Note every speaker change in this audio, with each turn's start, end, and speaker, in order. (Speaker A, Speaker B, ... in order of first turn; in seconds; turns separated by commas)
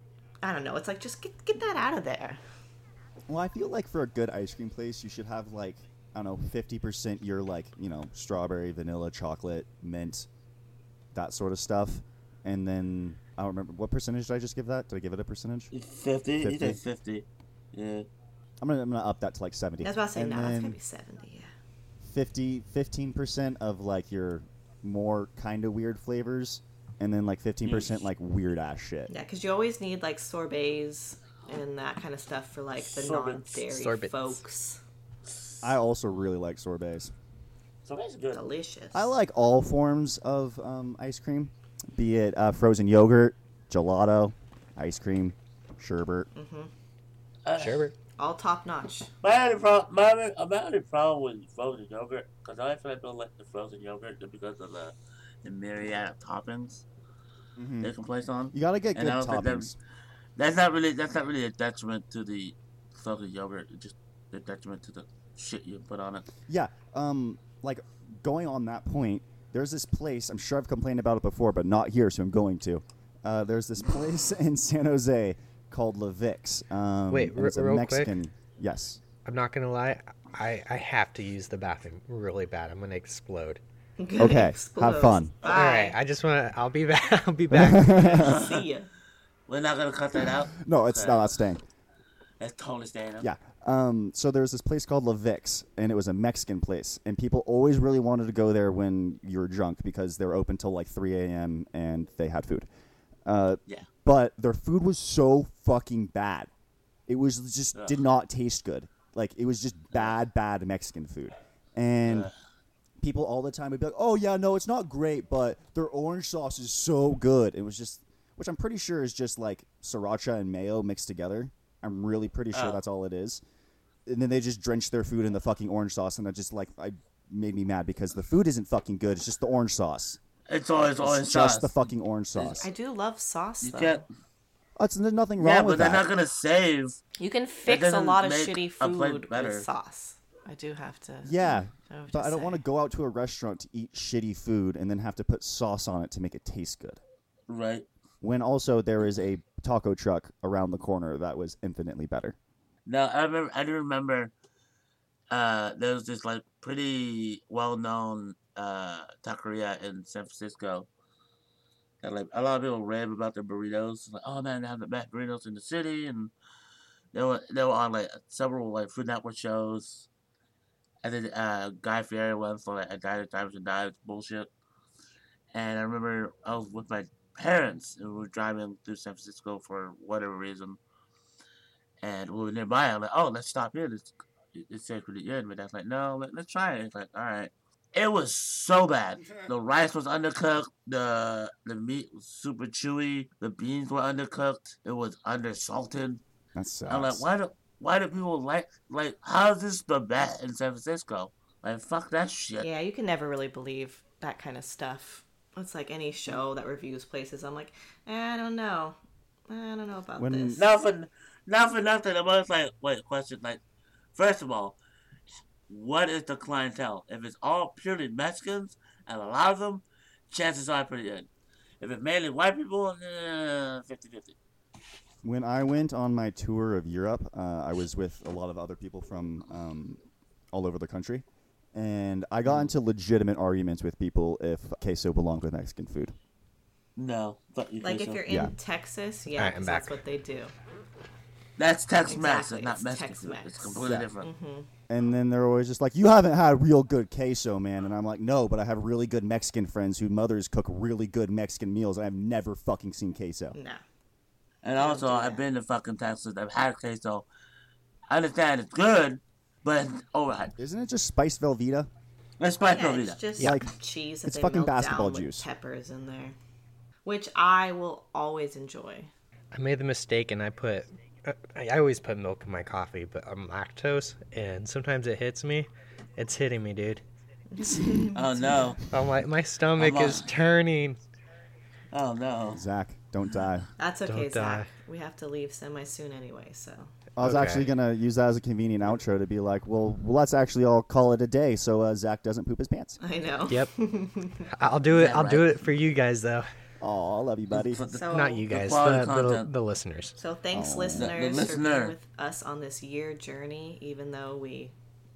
Speaker A: 0.4-2.4, Speaker B: 3.3-10.3, Speaker B: 11.1-15.7, Speaker C: 15.7-18.1, Speaker B: 16.4-16.8, Speaker B: 18.6-20.8, Speaker A: 19.8-21.5, Speaker B: 22.0-29.1, Speaker C: 27.6-28.0, Speaker A: 29.1-34.8, Speaker C: 32.8-33.6, Speaker D: 33.7-34.4, Speaker B: 35.6-37.1, Speaker C: 37.9-38.4, Speaker A: 38.3-39.1, Speaker B: 38.9-46.3, Speaker A: 46.3-46.7, Speaker C: 47.5-47.8, Speaker D: 47.5-48.0, Speaker A: 48.2-49.1, Speaker C: 49.2-56.9, Speaker B: 57.6-57.9, Speaker C: 57.8-59.7, Speaker B: 58.5-59.8, Speaker C: 60.4-66.3, Speaker B: 66.5-79.0, Speaker D: 77.1-78.2, Speaker D: 79.2-83.6, Speaker A: 84.0-86.0, Speaker B: 84.2-85.3, Speaker C: 85.5-85.7, Speaker D: 85.5-88.2, Speaker B: 87.5-88.5, Speaker A: 88.0-88.9, Speaker C: 88.1-88.7, Speaker C: 89.5-91.4, Speaker B: 90.2-91.6, Speaker C: 92.4-93.3, Speaker B: 93.2-102.7, Speaker B: 103.2-106.5, Speaker B: 107.1-112.3, Speaker C: 112.1-112.3, Speaker B: 113.0-123.4, Speaker C: 122.5-122.8, Speaker B: 124.1-130.2, Speaker C: 130.5-131.8, Speaker B: 131.0-132.7, Speaker C: 132.4-132.7, Speaker A: 132.6-134.1, Speaker C: 133.6-134.1, Speaker B: 134.8-136.1, Speaker C: 135.4-137.0, Speaker A: 137.2-142.6, Speaker C: 137.7-139.7, Speaker B: 141.2-147.0, Speaker C: 147.5-147.9, Speaker B: 148.2-152.4, Speaker C: 152.9-154.3, Speaker C: 155.3-160.9, Speaker C: 162.0-166.3, Speaker C: 167.1-170.1, Speaker C: 171.0-174.5, Speaker C: 175.5-180.8, Speaker C: 182.0-196.2, Speaker B: 196.6-197.3, Speaker C: 196.9-202.7, Speaker A: 202.6-209.0, Speaker A: 209.5-210.6, Speaker B: 210.2-210.6, Speaker C: 210.6-213.6, Speaker C: 214.2-214.8, Speaker C: 215.7-221.3, Speaker C: 221.8-224.4, Speaker B: 225.2-230.0, Speaker B: 230.5-236.1, Speaker C: 237.0-238.2, Speaker A: 237.8-240.5, Speaker B: 238.3-238.5, Speaker D: 239.4-240.0, Speaker C: 241.6-244.3, Speaker A: 242.1-244.7, Speaker B: 243.8-244.1, Speaker B: 244.9-253.6, Speaker A: 253.5-253.8, Speaker C: 254.6-257.3, Speaker A: 254.8-255.4, Speaker C: 258.1-260.5, Speaker B: 260.6-261.9, Speaker C: 262.4-263.2, Speaker A: 262.7-266.4, Speaker D: 263.4-263.6, Speaker B: 263.4-263.7, Speaker B: 264.2-265.5, Speaker A: 267.1-269.1, Speaker D: 269.5-277.0, Speaker A: 277.5-278.8, Speaker B: 277.6-278.1, Speaker C: 278.1-278.8, Speaker D: 278.9-281.0, Speaker C: 279.8-280.3, Speaker C: 281.9-282.6, Speaker B: 282.5-283.7, Speaker A: 283.8-286.9, Speaker D: 284.1-284.7, Speaker B: 287.2-293.0, Speaker D: 287.2-287.7, Speaker A: 293.0-294.5, Speaker D: 294.5-296.5, Speaker C: 294.9-295.6, Speaker B: 296.8-297.8, Speaker C: 297.5-299.5, Speaker A: 297.9-298.4, Speaker D: 298.1-300.2, Speaker A: 300.2-304.7, Speaker B: 300.5-301.1, Speaker C: 300.9-302.0